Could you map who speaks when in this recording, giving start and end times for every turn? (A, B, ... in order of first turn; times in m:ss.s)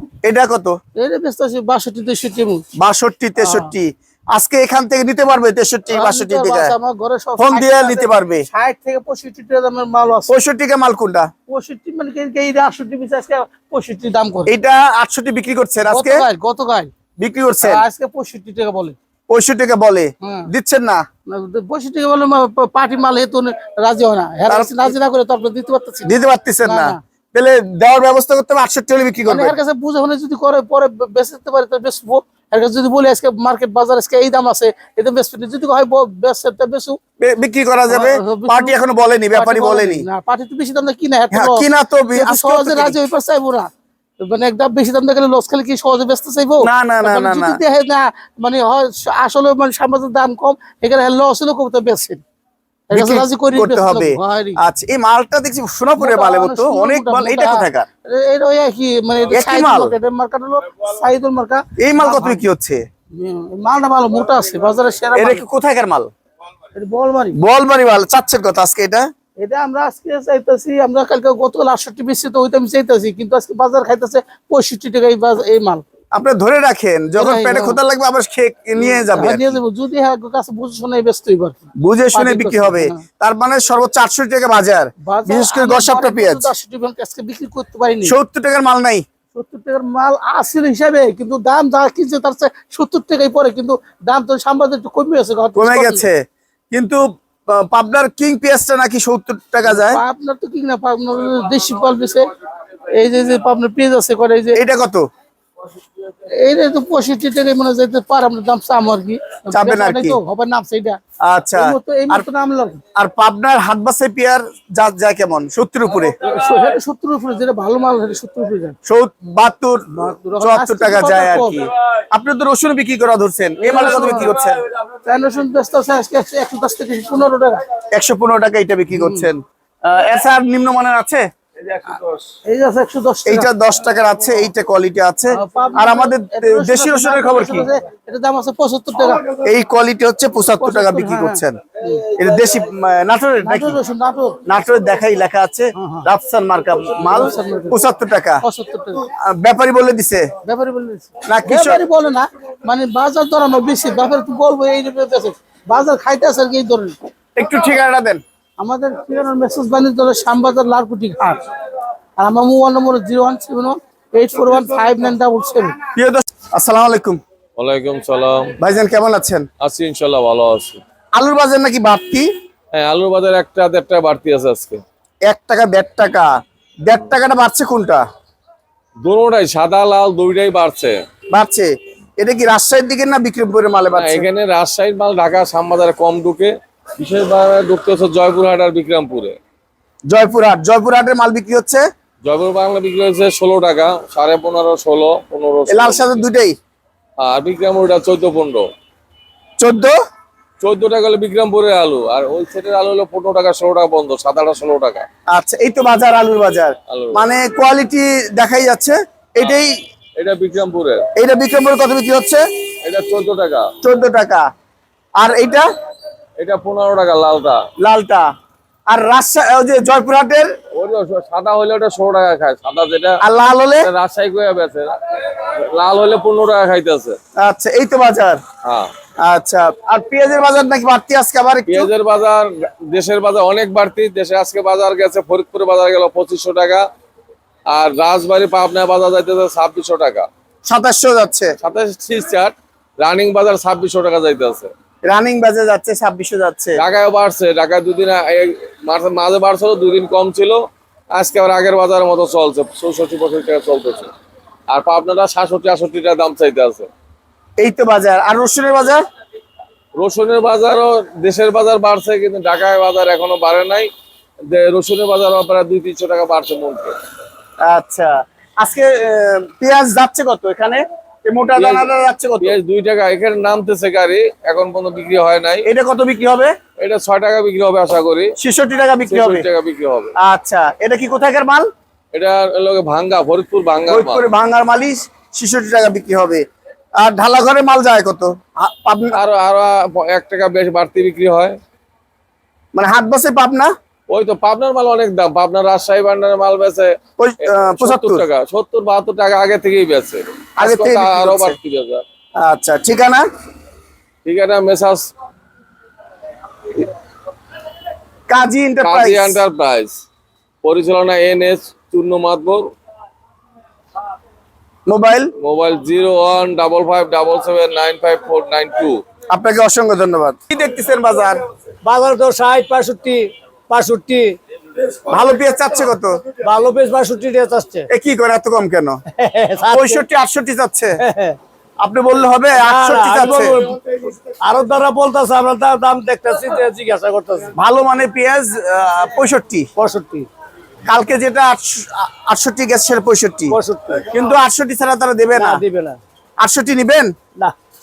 0:00.2-0:00.8 A
0:01.0-0:02.6 B
0:02.8-0:06.8 A
0:03.4-0:03.7 B
0:05.9-0:10.3 B
0:07.4-0:08.5 A
0:10.3-0:11.3 A
0:11.5-0:14.5 B
0:14.5-0:16.2 A
0:15.9-0:16.9 B
0:17.2-0:17.8 A
0:17.6-0:19.0 B
0:19.3-0:21.0 A
0:20.2-0:20.5 B
0:21.3-0:27.0 B
0:24.5-0:25.0 A
0:26.0-0:29.6 A
0:29.3-0:37.0 B
0:37.2-0:40.1 A
0:37.9-0:38.8 B
0:39.4-0:52.2 B
0:41.3-0:43.0 A
0:46.6-0:47.6 A
0:52.9-0:54.6 B
0:52.9-0:57.9 A
0:56.0-1:02.4 B
0:59.3-0:59.9 A
1:01.8-1:02.8 A
1:03.1-1:05.4 B
1:05.2-1:06.1 A
1:06.8-1:07.4 B
1:07.4-1:09.1 A
1:09.4-1:15.8 B
1:16.1-1:19.6 A
1:17.2-1:17.8 B
1:18.8-1:23.0 B
1:21.8-1:26.5 A
1:25.0-1:28.2 B
1:28.0-1:29.0 A
1:29.3-1:36.0 B
1:35.6-1:40.0 A
1:39.7-1:42.3 B
1:42.9-1:44.6 B
1:44.6-1:45.0 A
1:46.4-1:51.0 B
1:49.5-1:50.2 A
1:51.3-1:52.3 A
1:51.6-1:52.8 B
1:53.0-1:56.2 A
1:56.2-1:58.8 B
1:58.9-2:04.6 A
1:59.9-2:01.6 B
2:03.6-2:04.3 B
2:05.0-2:07.6 B
2:07.9-2:11.3 A
2:09.0-2:09.3 B
2:12.5-2:13.5 B
2:13.3-2:17.7 A
2:15.3-2:19.3 B
2:19.4-2:21.6 A
2:20.6-2:22.0 B
2:22.1-2:23.8 A
2:23.4-2:24.4 B
2:24.4-2:28.4 A
2:25.8-2:26.1 B
2:27.0-2:27.8 B
2:28.4-2:29.1 B
2:29.2-2:30.3 A
2:30.4-2:37.0 B
2:31.3-2:31.8 A
2:37.4-2:38.2 A
2:38.6-2:41.4 B
2:42.2-2:45.8 B
2:46.0-2:47.2 A
2:47.6-2:48.6 C
2:48.6-2:49.5 A
2:49.6-2:50.8 C
2:51.2-2:52.3 A
2:52.7-2:54.8 C
2:55.3-2:56.3 A
2:56.8-2:58.0 A
2:59.0-3:01.0 C
3:01.3-3:04.3 A
3:04.0-3:09.4 C
3:10.1-3:11.8 A
3:12.2-3:16.2 C
3:15.7-3:16.6 A
3:17.2-3:18.6 C
3:19.6-3:20.0 A
3:20.6-3:25.1 C
3:25.3-3:29.7 A
3:26.9-3:27.3 C
3:30.2-3:31.0 C
3:31.2-3:32.4 A
3:32.8-3:33.7 C
3:33.8-3:34.5 A
3:35.2-3:35.7 A
3:36.4-3:37.6 C
3:37.8-3:38.3 A
3:38.9-3:40.5 A
3:40.8-3:43.2 C
3:43.2-3:43.9 A
3:43.8-3:47.2 C
3:47.4-3:48.4 A
3:48.6-3:48.9 C
3:49.2-3:51.9 A
3:51.7-3:56.8 C
3:57.7-4:00.3 C
4:00.7-4:01.6 A
4:01.6-4:04.7 C
4:05.1-4:06.8 A
4:06.8-4:14.1 C
4:14.7-4:16.9 C
4:17.6-4:19.0 A
4:20.0-4:23.9 C
4:24.5-4:26.9 C
4:27.6-4:32.5 A
4:31.6-4:31.9 C
4:32.4-4:35.7 C
4:35.6-4:36.5 A
4:36.8-4:38.3 C
4:38.4-4:39.4 A
4:39.1-4:40.1 C
4:40.2-4:41.7 A
4:42.1-4:44.2 C
4:43.9-4:46.4 A
4:47.0-4:49.2 A
4:49.1-4:51.6 C
4:52.7-4:53.7 A
4:54.1-5:02.0 C
4:57.2-4:58.2 A
5:00.6-5:01.6 A
5:02.4-5:03.2 A
5:04.2-5:05.1 C
5:08.3-5:09.4 A
5:08.8-5:10.0 C
5:10.6-5:12.7 C
5:14.9-5:15.3 A
5:15.4-5:19.0 C
5:19.3-5:21.4 A
5:21.8-5:24.4 D
5:25.1-5:26.2 A
5:26.4-5:27.9 D
5:27.9-5:29.0 A
5:29.2-5:30.0 D
5:29.7-5:31.0 A
5:31.0-5:31.4 D
5:31.8-5:33.6 A
5:32.5-5:37.5 D
5:37.6-5:39.7 A
5:39.8-5:40.3 D
5:40.9-5:43.6 A
5:43.5-5:44.1 D
5:44.1-5:45.6 A
5:45.4-5:46.0 D
5:46.4-5:47.1 A